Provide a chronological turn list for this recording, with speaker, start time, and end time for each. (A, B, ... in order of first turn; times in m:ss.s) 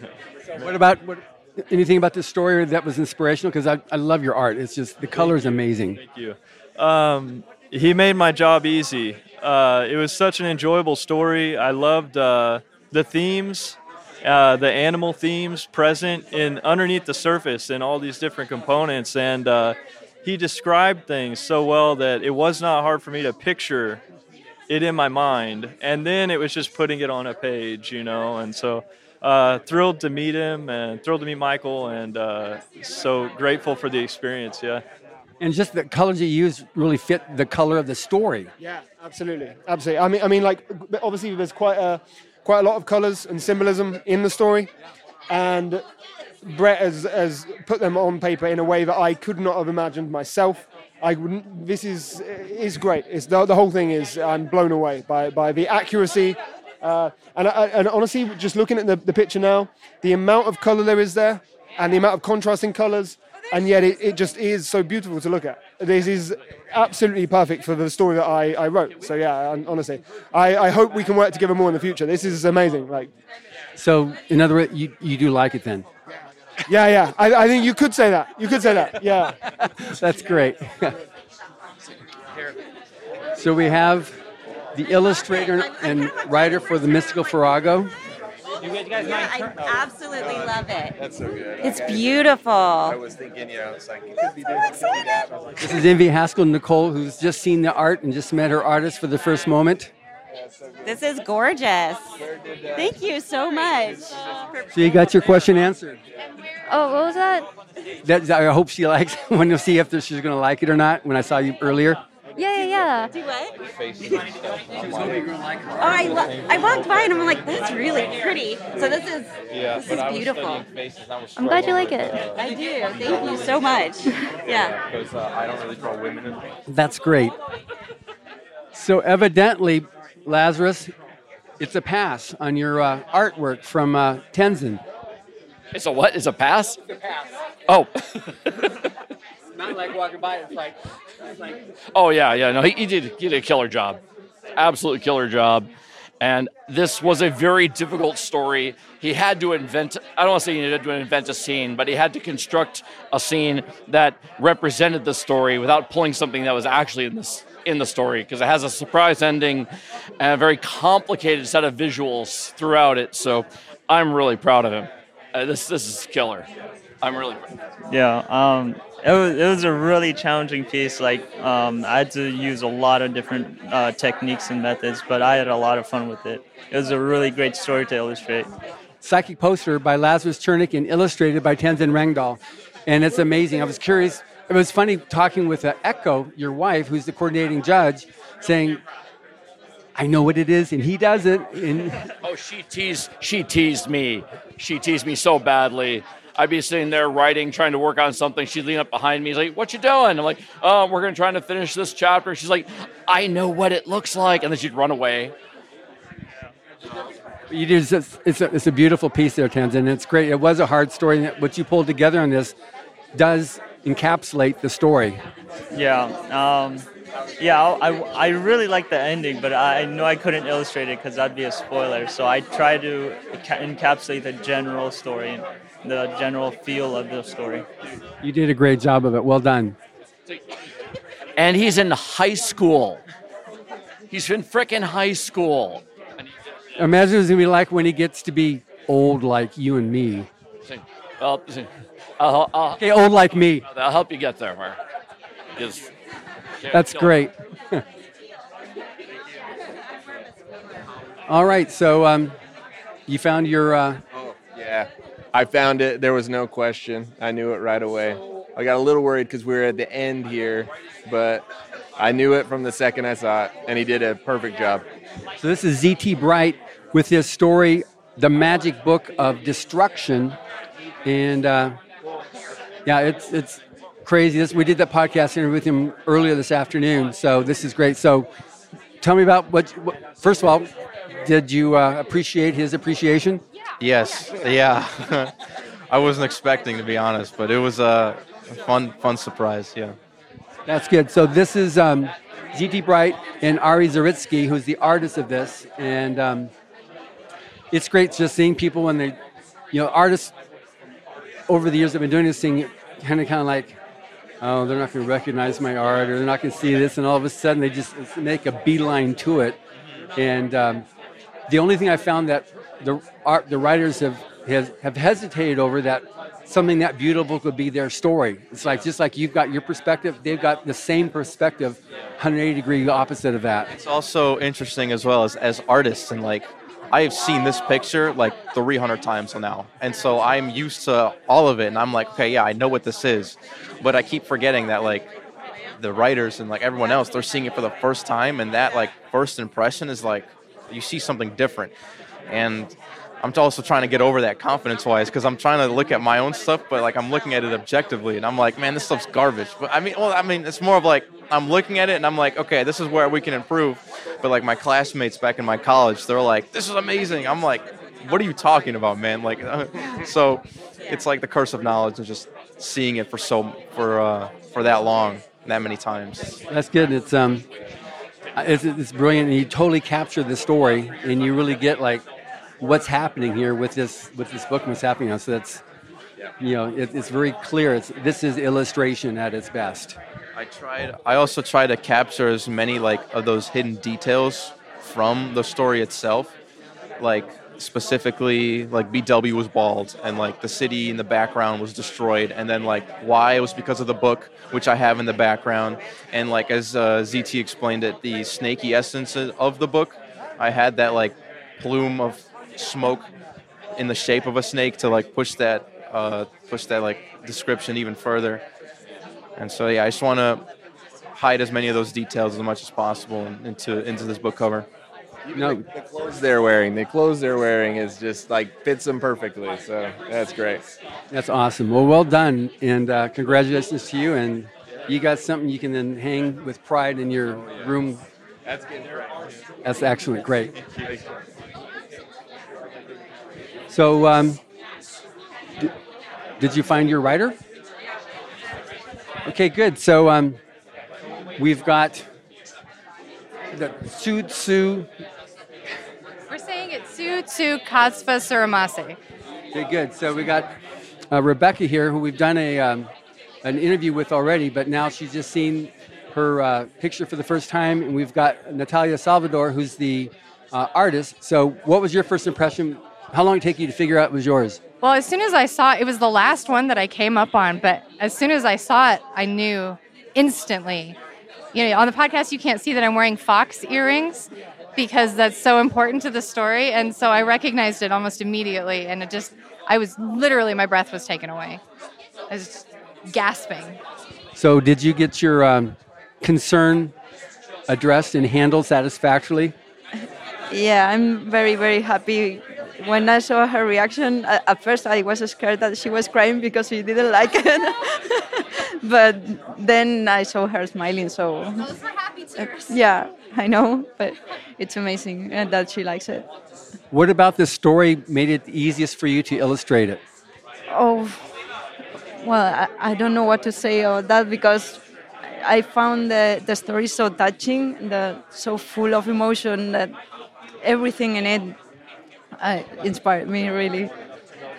0:00.6-0:06.0 A
0:05.1-0:24.0 B
0:24.7-0:34.8 B
0:35.4-0:38.5 A
0:38.6-0:44.7 C
0:45.3-0:45.8 C
0:46.4-1:13.1 C
1:13.8-1:15.9 A
1:16.7-1:19.3 C
1:19.6-1:20.9 A
1:23.4-1:24.2 A
1:24.8-1:27.9 A
1:29.0-1:30.9 D
1:29.0-1:35.8 E
1:31.6-1:32.9 D
1:35.6-1:39.9 A
1:40.4-1:41.0 E
1:40.8-1:42.0 D
1:42.2-1:43.1 E
1:42.8-1:45.1 D
1:44.7-1:46.0 A
1:46.7-1:47.5 F
1:48.0-1:52.0 A
1:52.4-1:53.1 F
1:53.1-1:53.4 D
1:53.6-1:55.3 E
1:54.8-1:56.2 A
1:55.8-1:59.2 D
1:56.0-2:03.9 E
1:59.8-2:00.6 D
2:01.4-2:02.2 F
2:02.3-2:04.8 D
2:04.4-2:06.4 E
2:06.7-2:07.4 A
2:08.7-2:10.9 A
2:11.6-2:14.8 A
2:15.7-2:16.8 G
2:19.6-2:20.7 A
2:21.9-2:24.0 G
2:24.5-2:25.7 G
2:26.2-2:39.7 G
2:40.2-2:46.5 G
2:47.0-2:47.5 G
2:47.9-2:58.5 H
2:59.0-3:08.8 A
3:10.0-3:12.0 A
3:12.2-3:25.3 G
3:27.5-3:32.5 A
3:33.1-3:35.2 A
3:35.7-3:36.9 H
3:37.4-3:47.6 H
3:48.2-3:49.8 A
3:51.4-3:53.0 G
3:54.1-3:55.8 G
3:56.8-4:00.3 A
4:00.6-4:02.9 G
4:02.8-4:03.6 A
4:03.5-4:04.8 G
4:05.5-4:05.9 G
4:06.6-4:07.2 G
4:06.7-4:07.8 A
4:11.3-4:12.4 A
4:13.1-4:14.0 A
4:14.1-4:24.8 E
4:25.4-4:30.4 A
4:31.0-4:31.8 A
4:32.9-4:38.3 A
4:39.0-4:40.7 A
4:41.2-4:43.4 A
4:43.8-4:45.3 I
4:45.9-4:50.0 I
4:50.7-4:56.5 A
4:57.7-4:59.2 A
4:59.7-5:00.3 A
5:01.5-5:03.8 A
5:04.4-5:09.6 A
5:10.2-5:10.8 A
5:11.5-5:23.7 A
5:23.7-5:35.1 I
5:35.8-5:41.7 I
5:42.3-6:06.4 I
6:06.5-6:07.4 A
6:08.4-6:12.0 A
6:12.6-6:15.6 A
6:16.4-6:20.0 A
6:20.4-6:26.3 I
6:27.0-6:43.1 I
6:43.8-6:48.4 I
6:49.4-6:50.4 I
6:51.1-6:54.7 I
6:55.3-7:00.6 E
6:55.4-6:55.6 A
7:01.1-7:08.0 A
7:07.3-7:07.7 E
7:08.4-7:09.2 E
7:09.6-7:10.5 A
7:10.5-7:11.1 E
7:13.7-7:14.4 A
7:16.4-7:17.4 A
7:19.2-7:20.4 A
7:21.4-7:22.0 A
7:23.5-7:24.9 A
7:26.3-7:29.0 J
7:29.5-7:30.5 A
7:31.1-7:32.9 A
7:33.4-7:44.6 A
7:44.8-7:51.0 J
7:51.5-8:01.6 J
8:02.3-8:03.8 J
8:04.4-8:06.9 A
8:07.7-8:09.5 A
8:10.5-8:18.2 K
8:18.8-8:21.7 K
8:22.4-8:26.2 K
8:26.9-8:30.0 A
8:30.7-8:31.2 K
8:32.2-8:34.8 K
8:35.4-8:39.9 K
8:40.6-8:41.6 K
8:42.4-8:43.9 K